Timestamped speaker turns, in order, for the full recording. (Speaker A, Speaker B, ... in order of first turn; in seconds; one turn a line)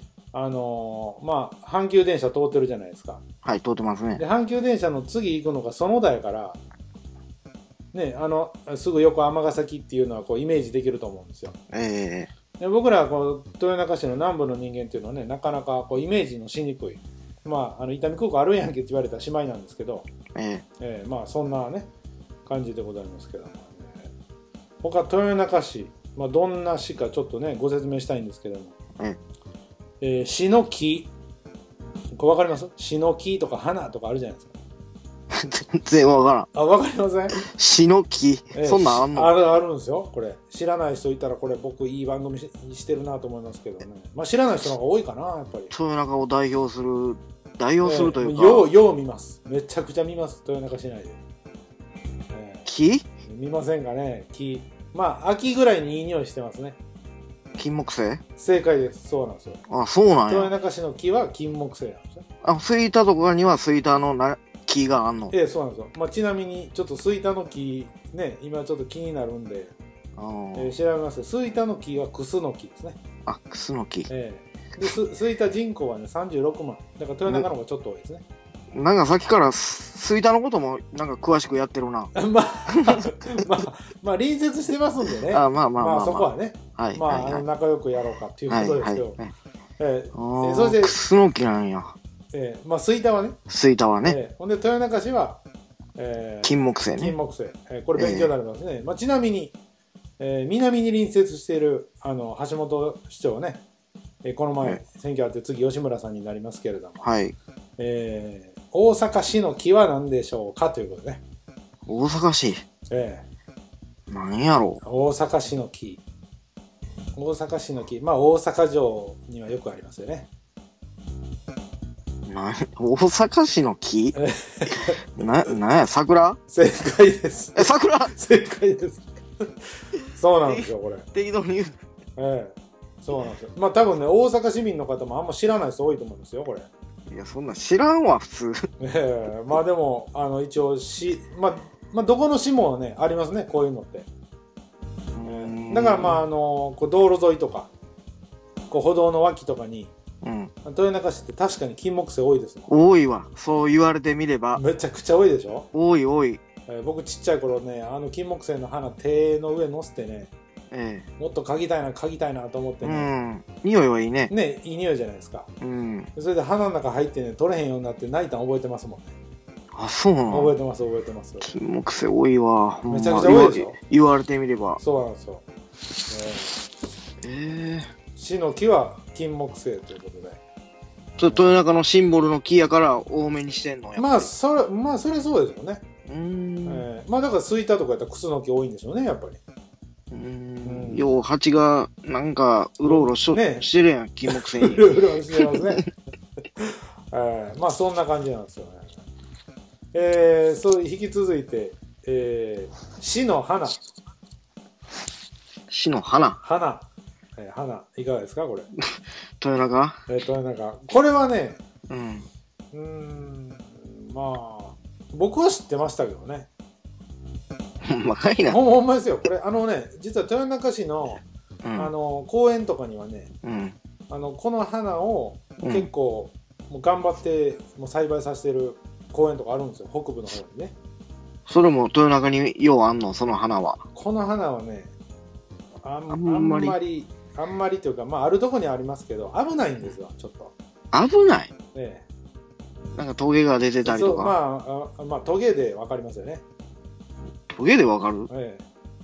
Speaker A: 0.3-3.2
Speaker B: 3.4-4.2
Speaker A: 4.2-6.6
Speaker A: 7.9-11.6
Speaker B: 11.7-12.3
Speaker A: 12.6-20.1
Speaker B: 20.4-20.6
Speaker A: 20.8-21.9
Speaker A: 22.5-24.1
Speaker A: 24.8-28.8
Speaker A: 30.0-31.1
Speaker A: 32.1-34.5
Speaker B: 35.3-36.5
Speaker A: 36.5-37.4
Speaker B: 37.4-39.3
Speaker A: 38.5-45.7
Speaker B: 45.7-48.7
Speaker A: 47.8-51.2
Speaker A: 52.3-52.7
Speaker B: 52.7-53.0
Speaker A: 53.3-56.8
Speaker B: 57.6-58.2
Speaker A: 58.4-59.6
Speaker B: 59.7-60.5
Speaker A: 60.3-62.2
Speaker B: 62.4-65.3
Speaker A: 65.3-69.7
Speaker B: 70.2-70.7
Speaker A: 70.5-73.0
Speaker B: 73.3-74.1
Speaker A: 74.1-78.2
Speaker B: 78.7-82.1
Speaker A: 82.2-89.2
Speaker B: 85.3-87.5
Speaker B: 88.5-89.3
Speaker A: 89.8-91.0
Speaker B: 90.1-92.0
Speaker A: 92.3-93.4
Speaker B: 93.5-94.2
Speaker A: 94.0-95.4
Speaker A: 96.0-99.5
Speaker B: 96.4-97.2
Speaker B: 98.0-98.3
Speaker A: 100.2-103.6
Speaker A: 104.2-107.0
Speaker B: 107.0-107.3
Speaker A: 107.8-111.2
Speaker B: 111.9-112.6
Speaker A: 112.9-113.2
Speaker B: 114.1-114.8
Speaker A: 114.8-116.0
Speaker A: 117.2-120.3
Speaker B: 122.3-124.2
Speaker A: 124.2-125.5
Speaker B: 125.2-126.4
Speaker A: 126.5-129.5
Speaker B: 127.6-128.1
Speaker A: 130.1-131.1
Speaker B: 130.4-131.8
Speaker A: 132.2-136.7
Speaker B: 137.1-138.7
Speaker A: 138.8-144.1
Speaker B: 145.2-146.2
Speaker A: 145.2-147.7
Speaker A: 148.7-149.9
Speaker B: 150.2-150.5
Speaker A: 150.7-152.7
Speaker B: 152.7-154.6
Speaker A: 154.6-155.7
Speaker B: 155.7-156.4
Speaker A: 156.7-160.3
Speaker B: 160.7-161.1
Speaker A: 161.2-163.1
Speaker B: 162.8-164.3
Speaker A: 164.3-165.5
Speaker B: 165.6-166.1
Speaker A: 166.2-169.1
Speaker B: 169.7-170.6
Speaker A: 170.3-171.5
Speaker B: 171.4-174.8
Speaker A: 172.8-173.8
Speaker A: 174.8-175.4
Speaker A: 176.1-176.6
Speaker B: 177.2-177.9
Speaker A: 178.2-180.4
Speaker B: 181.2-184.3
Speaker A: 181.2-181.6
Speaker A: 184.0-185.8
Speaker B: 186.1-186.8
Speaker A: 186.7-189.4
Speaker B: 190.1-195.6
Speaker A: 190.6-191.2
Speaker A: 192.8-193.7
Speaker A: 194.3-195.9
Speaker A: 196.6-199.0
Speaker A: 199.9-203.8
Speaker B: 205.7-206.4
Speaker A: 206.4-208.7
Speaker B: 209.4-210.0
Speaker A: 210.1-211.6
Speaker B: 211.9-212.3
Speaker A: 212.7-216.5
Speaker B: 217.8-218.6
Speaker A: 218.5-221.2
Speaker B: 221.6-221.9
Speaker A: 221.8-223.3
Speaker B: 223.4-223.8
Speaker A: 224.1-230.8
Speaker B: 225.6-225.9
Speaker B: 231.5-233.8
Speaker A: 233.9-234.9
Speaker A: 235.8-240.5
Speaker B: 236.1-236.8
Speaker B: 240.9-241.5
Speaker A: 241.7-242.1
Speaker B: 242.9-244.3
Speaker A: 243.8-246.4
Speaker B: 247.5-248.3
Speaker A: 248.3-248.6